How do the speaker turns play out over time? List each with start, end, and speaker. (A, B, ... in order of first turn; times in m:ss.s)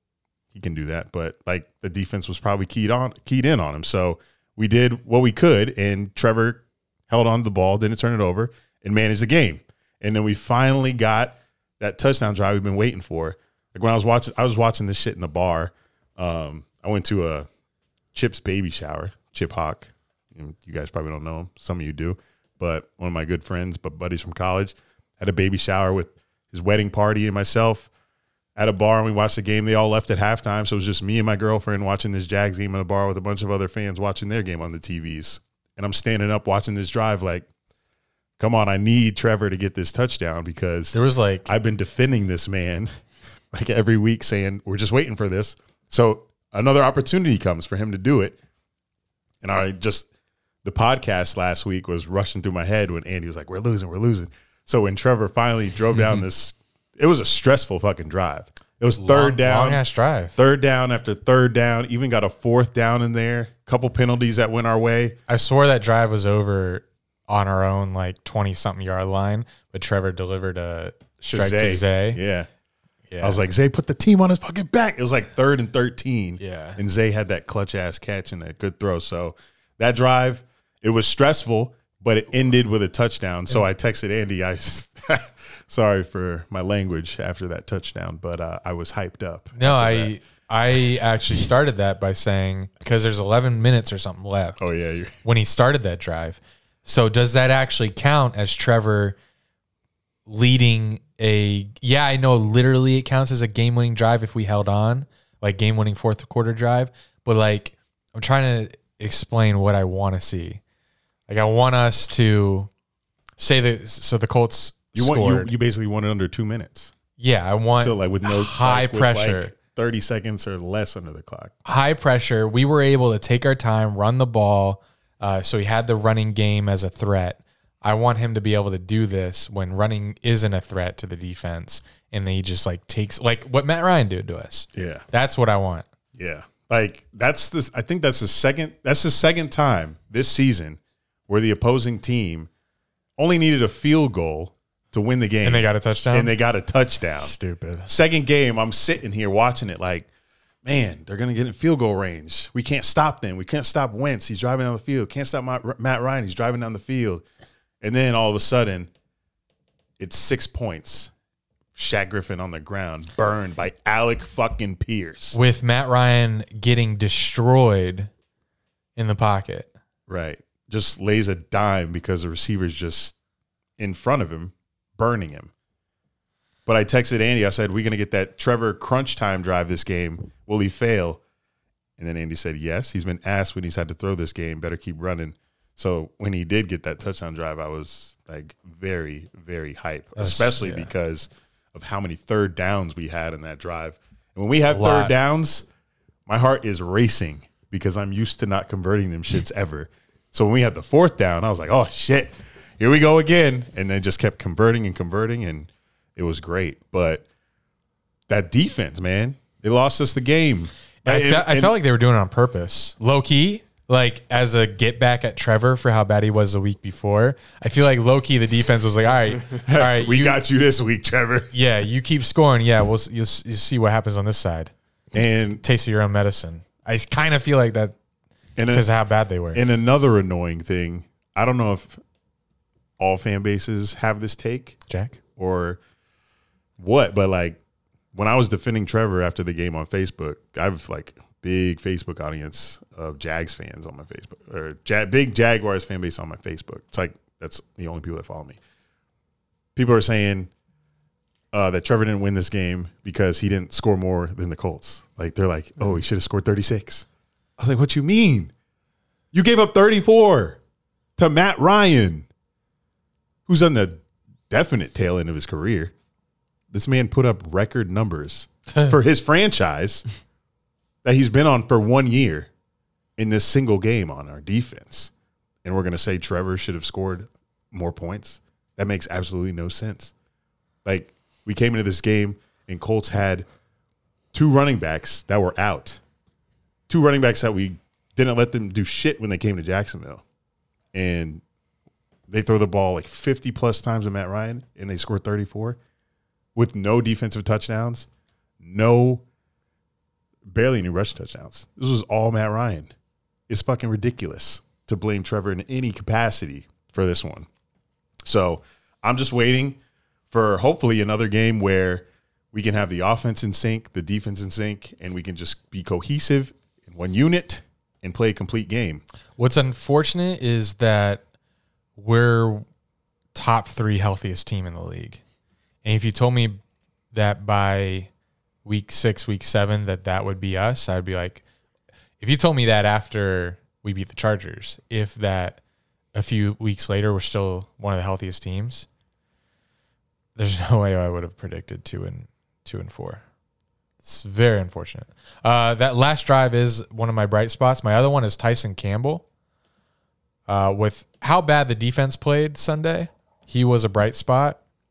0:00.5-0:17.5 A
0:18.1-0:27.9 A
0:28.6-0:37.5 A
0:38.4-0:42.9 A
0:40.9-0:41.5 B
0:43.5-0:48.4 A
0:49.4-0:50.1 A
0:50.6-0:59.8 A
0:59.0-1:00.4 B
1:00.4-1:05.2 A
1:05.3-1:12.2 B
1:11.2-1:12.5 A
1:13.1-1:13.4 B
1:13.2-1:30.1 A
1:16.4-1:16.8 B
1:29.6-1:34.6 B
1:34.6-1:35.1 A
1:35.2-1:39.2 B
1:40.3-1:50.6 B
1:51.3-1:52.7 B
1:53.4-1:55.5 B
1:54.9-1:56.9 A
1:57.2-1:59.5 B
1:57.8-2:01.5 A
2:01.6-2:15.9 B
2:14.7-2:15.0 A
2:16.1-2:22.5 A
2:23.2-2:27.3 A
2:25.4-2:26.3 B
2:27.2-2:27.9 B
2:27.8-2:30.1 A
2:30.6-2:37.2 A
2:37.8-2:38.9 A
2:40.0-2:41.1 A
2:41.7-2:45.4 A
2:45.3-2:48.1 B
2:49.0-2:49.7 B
2:50.1-2:53.2 A
2:53.8-2:55.5 A
2:56.6-3:01.2 A
3:02.0-3:15.7 A
3:10.2-3:10.9 B
3:14.7-3:15.1 B
3:16.3-3:27.2 A
3:28.3-3:31.8 A
3:31.0-3:40.4 B
3:39.5-3:41.5 A
3:41.5-3:44.7 B
3:45.1-3:45.6 A
3:45.6-3:48.0 B
3:48.6-3:48.9 A
3:48.7-3:49.6 B
3:49.5-3:52.0 A
3:53.0-3:54.8 A
3:54.9-3:55.2 B
3:55.4-3:55.8 A
3:56.8-3:57.6 A
3:58.1-4:08.6 A
4:09.8-4:10.5 A
4:11.5-4:17.0 A
4:17.6-4:18.5 A
4:19.3-4:20.6 A
4:21.2-4:22.3 A
4:23.5-4:25.9 A
4:26.7-4:30.0 A
4:31.0-4:32.5 A
4:33.2-4:35.1 A
4:35.6-4:40.1 A
4:40.8-4:43.4 A
4:44.3-4:46.0 A
4:46.9-4:50.2 A
4:50.9-4:51.4 A
4:52.3-4:55.8 A
4:56.5-4:58.1 A
4:58.6-4:59.2 A
5:00.4-5:02.9 A
5:03.5-5:07.5 A
5:08.2-5:09.8 A
5:10.3-5:19.0 A
5:19.4-5:21.2 B
5:22.0-5:22.6 B
5:23.3-5:25.2 B
5:25.8-5:26.6 B
5:27.1-5:28.1 B
5:28.6-5:31.4 B
5:32.2-5:35.6 B
5:36.1-5:38.9 B
5:40.4-5:43.2 B
5:44.0-5:49.2 B
5:50.5-5:54.6 B